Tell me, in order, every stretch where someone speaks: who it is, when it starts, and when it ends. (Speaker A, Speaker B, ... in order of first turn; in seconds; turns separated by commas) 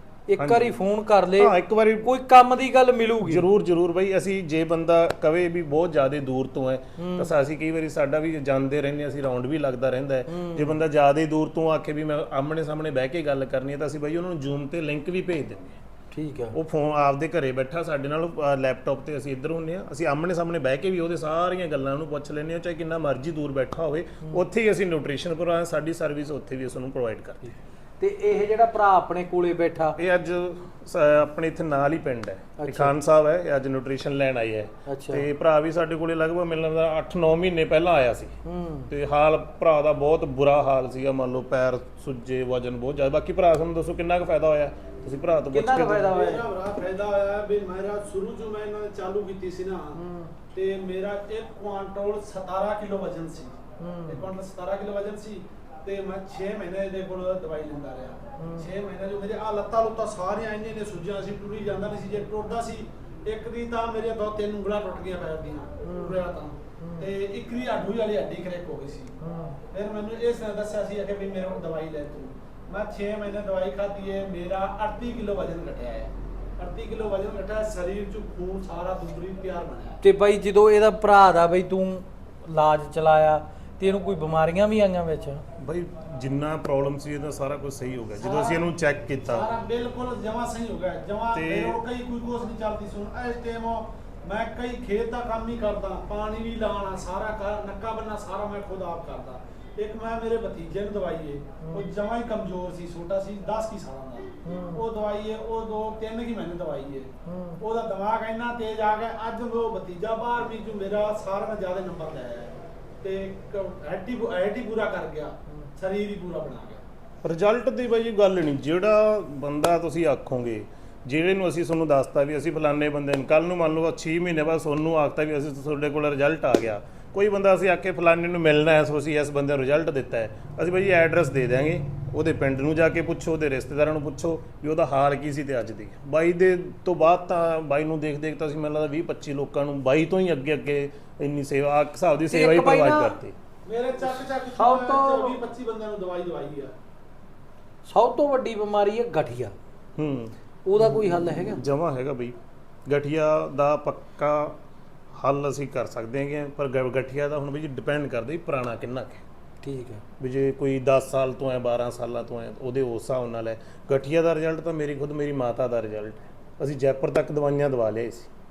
Speaker A: 0.3-3.5, Speaker B: 0.4-0.8, Speaker B: 1.4-2.1, Speaker B: 3.2-15.8, Speaker A: 7.0-7.3, Speaker A: 10.3-10.8, Speaker A: 16.1-16.6, Speaker B: 16.5-27.5, Speaker A: 27.4-30.0, Speaker B: 30.0-38.3, Speaker A: 32.6-32.9, Speaker A: 34.9-35.2, Speaker A: 38.4-38.9, Speaker B: 38.9-46.1, Speaker A: 45.5-46.4, Speaker C: 46.0-50.0, Speaker A: 50.0-50.3, Speaker C: 50.5-69.1, Speaker A: 53.8-54.3, Speaker A: 58.4-58.7, Speaker A: 65.8-66.2, Speaker A: 66.8-67.1, Speaker A: 69.2-69.6, Speaker C: 69.7-80.0, Speaker A: 80.0-85.4, Speaker B: 85.6-89.5, Speaker C: 88.2-88.7, Speaker C: 89.3-116.8, Speaker B: 91.3-91.8, Speaker A: 101.6-101.9, Speaker A: 104.4-104.8, Speaker A: 107.2-107.6, Speaker B: 117.2-143.3, Speaker A: 142.3-143.2, Speaker C: 143.6-146.7, Speaker A: 144.1-145.4, Speaker A: 147.9-149.5, Speaker B: 150.0-152.3, Speaker A: 150.7-151.6, Speaker B: 152.9-154.6, Speaker B: 155.1-159.2, Speaker A: 159.6-160.0, Speaker B: 160.2-168.3